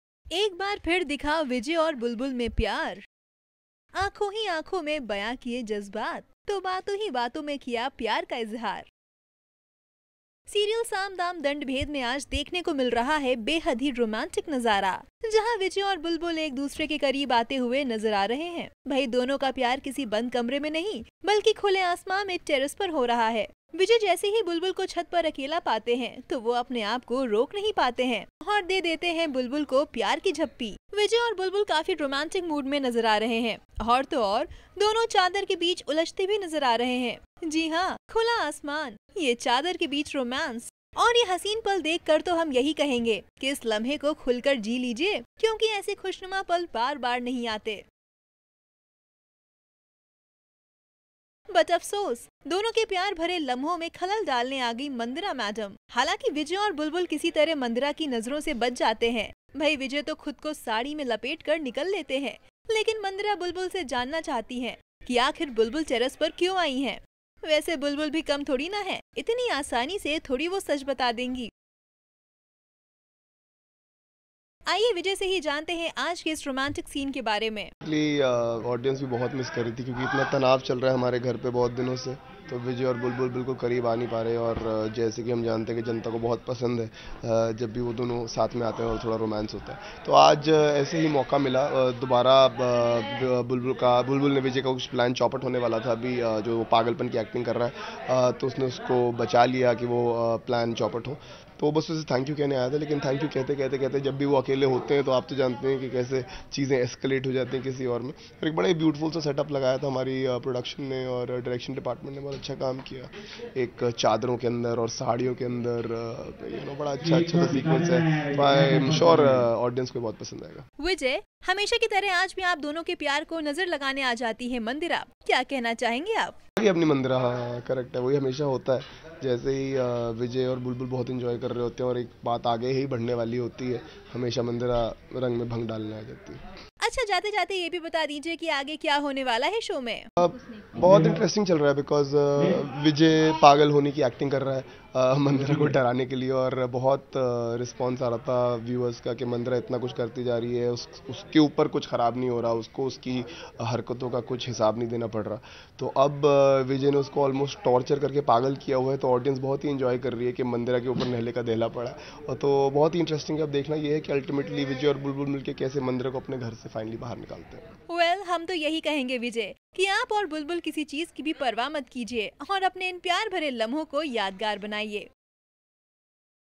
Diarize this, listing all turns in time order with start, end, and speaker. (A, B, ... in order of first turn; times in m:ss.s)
0:00.3-0:03.0 A
0:04.0-0:08.9 A
0:10.5-0:47.8 A
0:51.5-1:11.5 A
1:14.7-1:17.7 A
1:17.8-2:00.6 B
2:00.8-2:06.4 A
2:06.6-2:16.4 B
2:16.8-2:20.1 A
2:20.2-2:47.6 B
2:47.9-2:55.1 A